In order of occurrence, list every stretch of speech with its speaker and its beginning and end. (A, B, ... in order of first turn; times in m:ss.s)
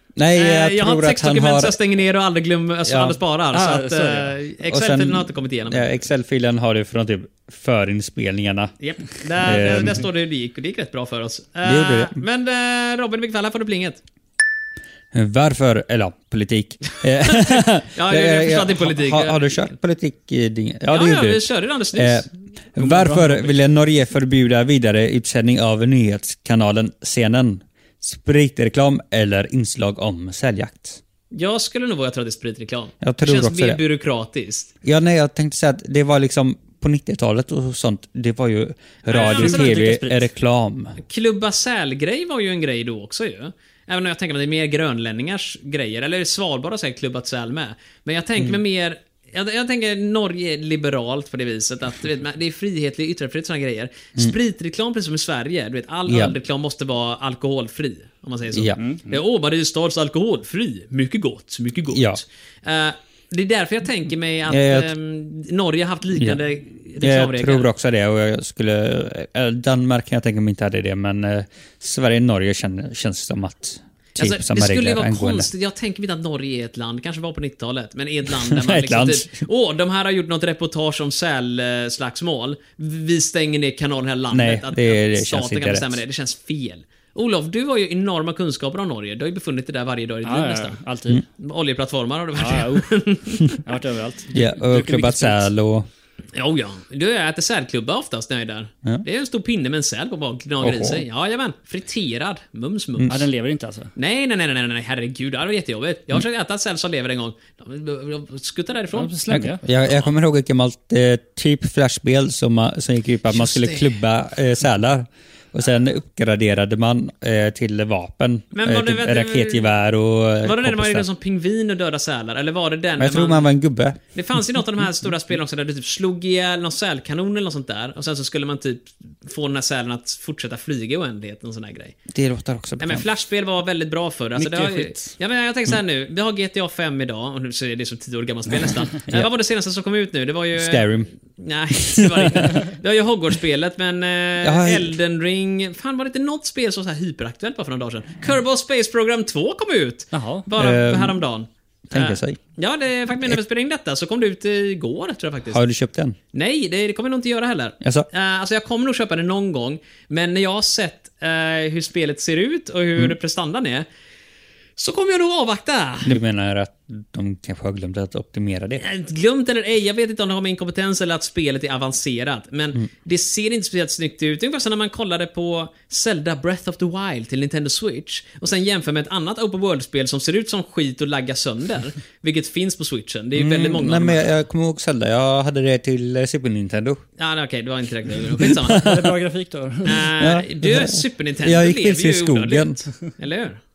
0:00.2-0:01.8 A
0:00.4-0:05.9 B
0:02.9-0:03.2 A
0:03.5-0:04.4 C
0:04.7-0:08.7 A
0:08.8-0:14.0 B
0:09.4-0:10.0 A
0:11.6-0:12.2 A
0:15.1-0:21.4 A
0:17.2-0:19.7 B
0:20.9-0:22.3 B
0:21.9-0:31.0 A
0:22.8-0:23.4 C
0:31.3-0:34.7 B
0:33.0-0:33.8 A
0:34.8-0:41.0 A
0:39.1-0:39.7 B
0:39.1-0:40.3 C
0:41.0-1:07.7 B
0:56.1-0:56.4 A
0:58.8-0:59.2 C
1:01.9-1:02.2 A
1:04.5-1:04.9 A
1:07.0-1:15.5 A
1:14.2-1:30.8 B
1:18.4-1:19.3 A
1:24.3-1:26.0 A
1:30.2-1:31.2 C
1:31.4-1:33.6 B
1:32.4-1:35.5 C
1:34.3-1:35.9 A
1:36.4-1:43.2 B
1:40.6-1:41.0 A
1:43.1-1:43.9 C
1:44.0-1:49.1 B
1:49.0-1:49.6 C
1:49.3-2:01.1 A
1:53.3-1:54.0 B
1:58.5-1:59.7 B
2:00.4-2:03.5 B
2:03.0-2:04.0 A
2:04.1-2:12.0 B
2:12.1-2:13.0 A
2:12.8-2:35.6 B
2:14.4-2:15.1 C
2:20.6-2:21.1 A
2:21.8-2:22.6 A
2:24.4-2:25.0 A
2:30.1-2:30.5 C
2:30.6-2:31.2 A
2:31.9-2:32.4 A
2:35.5-2:36.2 A
2:36.3-2:43.9 B
2:37.8-2:38.1 A
2:44.8-2:46.2 B
2:46.0-2:48.8 A
2:48.8-3:04.3 B
3:03.4-3:07.0 A
3:07.2-3:09.0 B
3:08.4-3:09.0 A
3:08.8-3:10.1 C
3:09.8-3:13.6 B
3:10.2-3:12.8 A